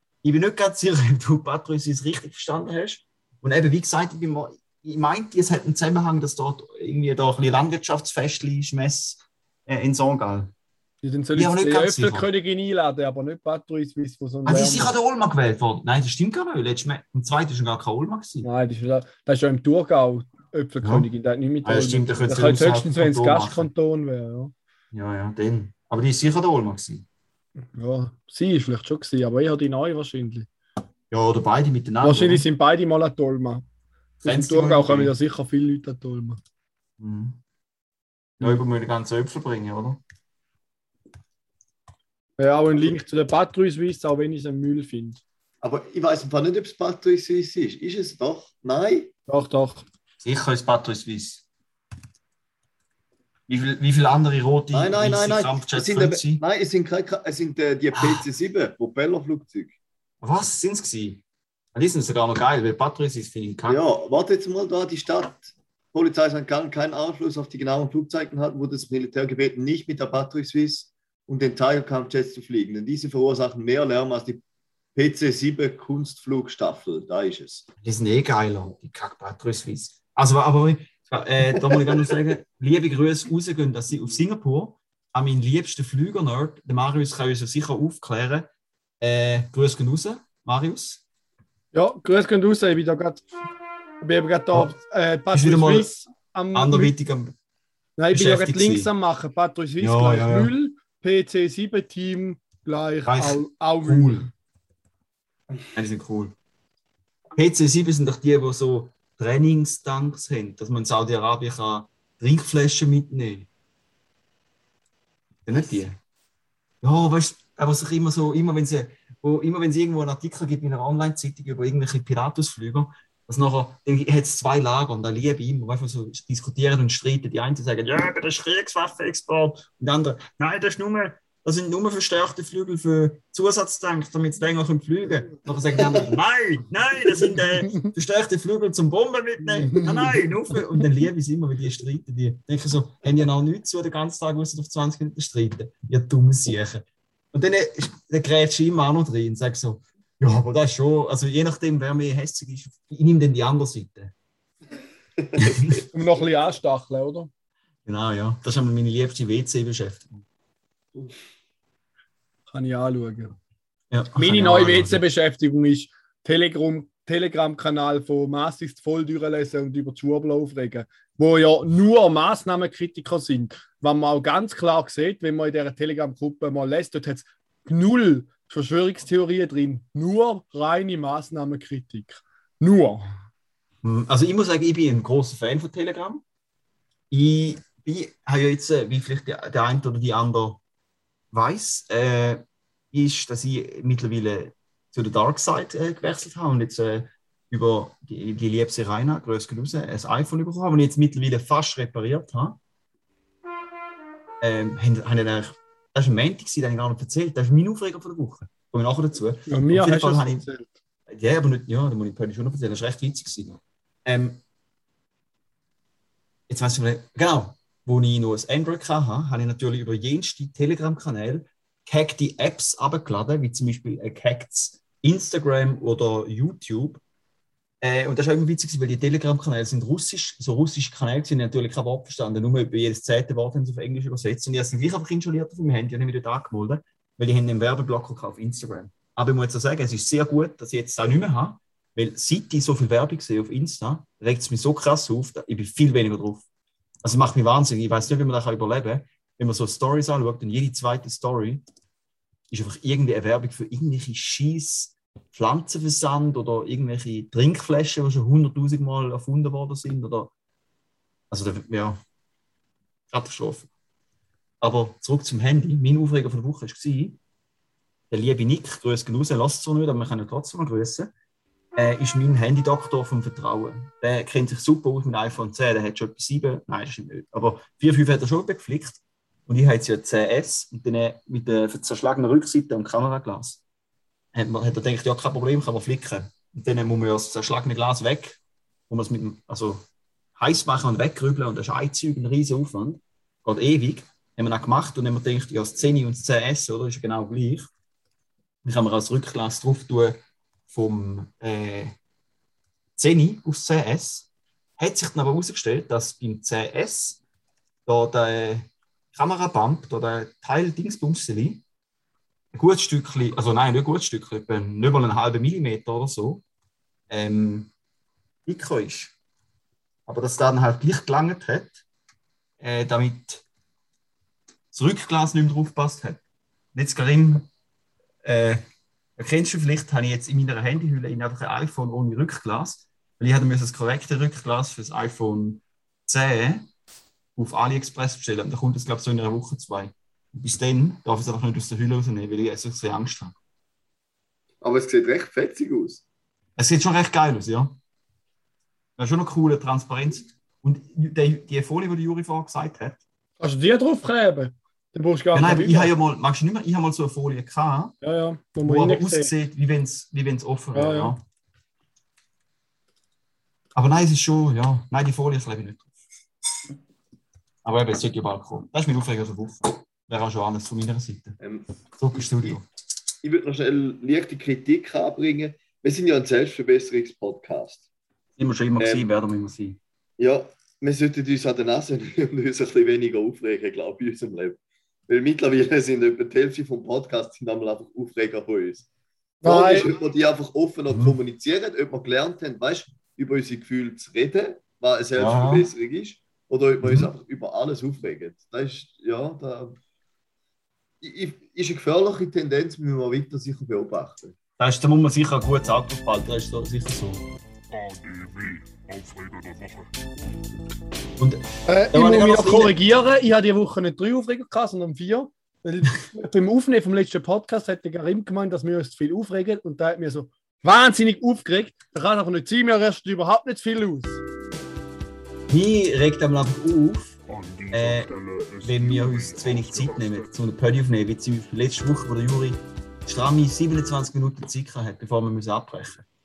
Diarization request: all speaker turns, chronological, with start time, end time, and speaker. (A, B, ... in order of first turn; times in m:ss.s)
0:00.2-0:10.5 A
0:11.0-0:14.9 B
0:11.4-0:12.3 A
0:14.4-0:18.5 A
0:18.4-0:24.5 B
0:20.8-0:21.1 A
0:21.6-0:23.7 A
0:24.9-0:27.1 A
0:27.8-0:30.5 B
0:31.1-0:32.5 A
0:32.0-0:33.6 B
0:34.2-0:35.2 A
0:34.2-0:36.4 B
0:37.0-0:37.4 A
0:38.4-0:40.0 A
0:42.4-0:45.2 B
0:45.6-0:49.1 C
0:49.3-0:49.9 B
0:50.2-0:51.4 A
0:53.5-0:56.4 A
0:54.7-0:59.7 C
0:57.9-0:58.2 A
1:00.2-1:01.2 A
1:01.8-1:03.8 A
1:03.7-1:14.4 C
1:15.0-1:17.6 C
1:17.8-1:28.5 A
1:21.7-1:22.1 C
1:29.0-1:31.0 A
1:31.7-1:33.3 B
1:34.0-1:36.9 B
1:35.3-1:35.9 A
1:36.5-1:37.4 A
1:38.0-1:44.3 B
1:38.1-1:38.9 A
1:39.8-1:40.5 A
1:43.1-1:44.3 A
1:45.7-1:46.3 A
1:47.4-1:53.5 A
1:55.5-1:56.0 A
1:56.8-2:34.1 A
2:15.7-2:16.0 C
2:19.6-2:20.2 B
2:35.2-2:35.8 C
2:35.4-2:35.8 A
2:35.9-2:37.3 B
2:37.9-2:40.2 A
2:42.5-2:43.3 B
2:43.9-2:45.0 A
2:44.2-3:03.1 B
3:03.8-3:06.2 A
3:07.1-3:10.6 A
3:11.3-3:22.6 A
3:24.4-3:30.4 A
3:29.5-3:30.7 B
3:31.1-3:34.4 A
3:36.5-3:47.0 A
3:47.8-4:06.5 A
4:07.0-4:11.6 A
4:12.5-4:20.3 A
4:21.3-4:22.0 A
4:23.1-4:23.7 A
4:24.6-4:27.2 A
4:28.1-4:31.1 A
4:31.8-4:43.6 A
4:44.3-4:49.8 A
4:50.4-4:57.7 A
4:58.6-5:02.0 A
5:03.0-5:07.2 A
5:07.9-5:11.6 A
5:12.5-5:16.4 A
5:17.1-5:17.7 A
5:18.5-5:19.1 A
5:20.1-5:21.8 A
5:22.6-5:23.4 A
5:24.7-5:26.2 A
5:26.7-5:27.5 A
5:28.2-5:28.6 A
5:29.2-5:36.7 A
5:37.4-5:43.4 A
5:44.6-5:46.0 C
5:46.6-5:47.8 A
5:49.0-5:53.0 A
5:53.4-5:55.9 B
5:55.3-5:58.0 A
5:58.0-5:59.3 B
5:58.6-6:01.2 A
6:00.8-6:01.1 B
6:03.8-6:05.9 A
6:07.6-6:11.4 A
6:11.4-6:12.6 C
6:12.0-6:12.6 A
6:13.2-6:17.8 C
6:18.4-6:19.8 A
6:18.8-6:19.0 C
6:20.2-6:28.9 C
6:29.4-6:29.9 B
6:29.4-6:39.8 C
6:30.9-6:31.2 A
6:35.2-6:35.7 A
6:36.8-6:37.1 A
6:41.0-6:44.3 C
6:44.6-6:47.2 A
6:47.7-6:50.0 D
6:51.2-6:52.8 A
6:51.7-7:04.2 B
7:05.5-7:07.2 A
7:07.3-7:10.4 D
7:07.7-7:16.1 A